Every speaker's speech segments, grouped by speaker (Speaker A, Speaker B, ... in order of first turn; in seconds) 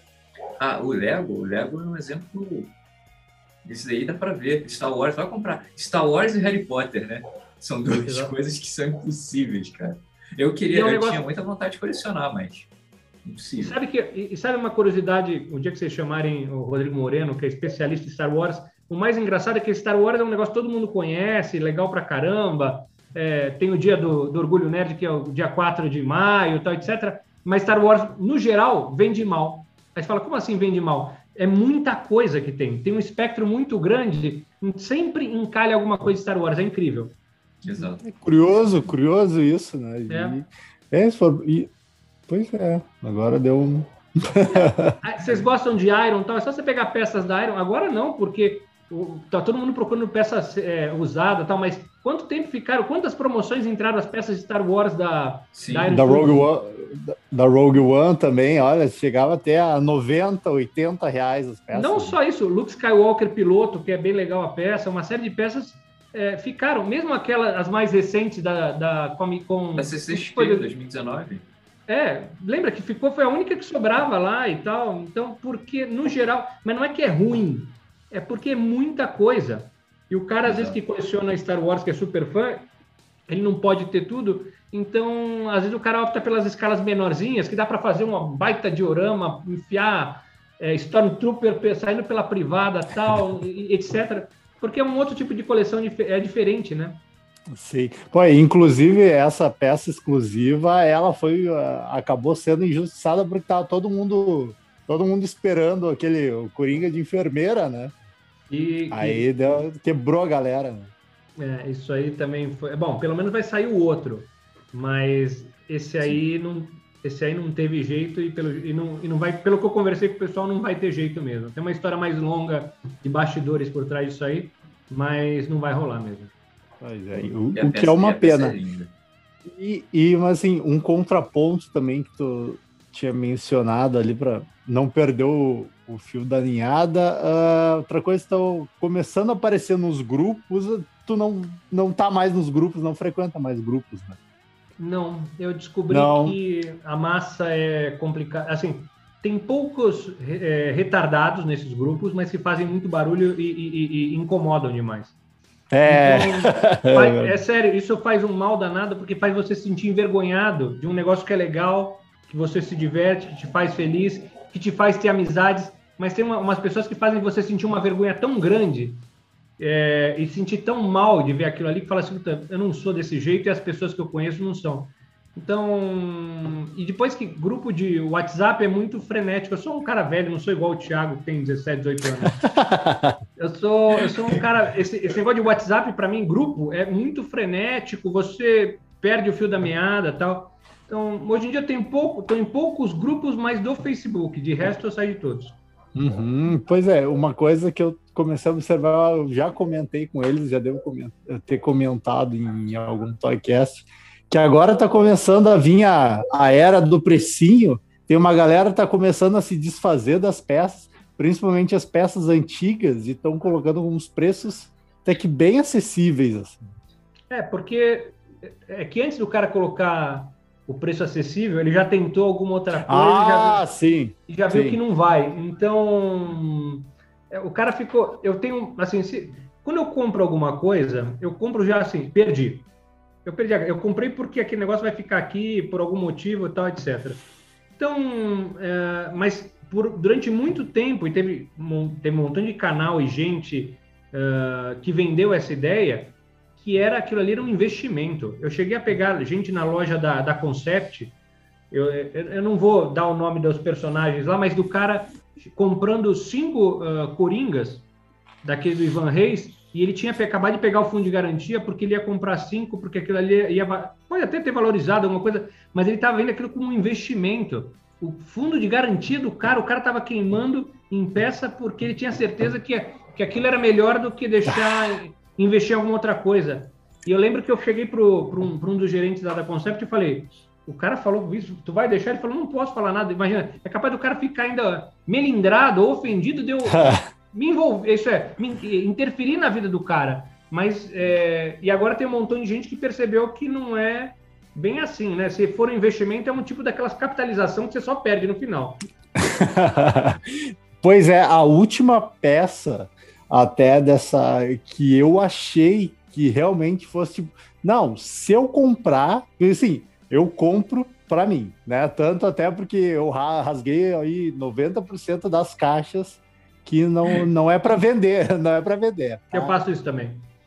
Speaker A: 0.6-2.7, 3.6-12.7, 13.2-13.8, 37.6-38.0, 55.6-55.9, 69.8-71.5, 80.5-80.8, 127.5-128.9
Speaker B: 7.9-8.3, 10.7-11.2, 13.6-37.2, 40.1-40.4, 45.0-56.5, 61.7-70.7, 71.9-82.7, 83.3-97.0, 108.5-109.3, 111.4-126.3, 144.8-155.1, 155.9-169.0, 169.6-182.5, 183.4-195.6, 217.3-223.7, 224.3-232.7, 233.2-237.2, 237.8-251.2, 251.7-257.9, 258.4-298.8, 319.3-320.2
Speaker C: 37.8-41.7, 42.3-45.0, 55.9-62.2, 97.5-107.9, 108.9-110.9, 126.8-128.6, 129.5-144.2, 145.9-146.4, 155.7-157.4, 182.4-183.2, 195.9-216.6, 222.9-224.8, 286.8-287.0, 299.2-319.6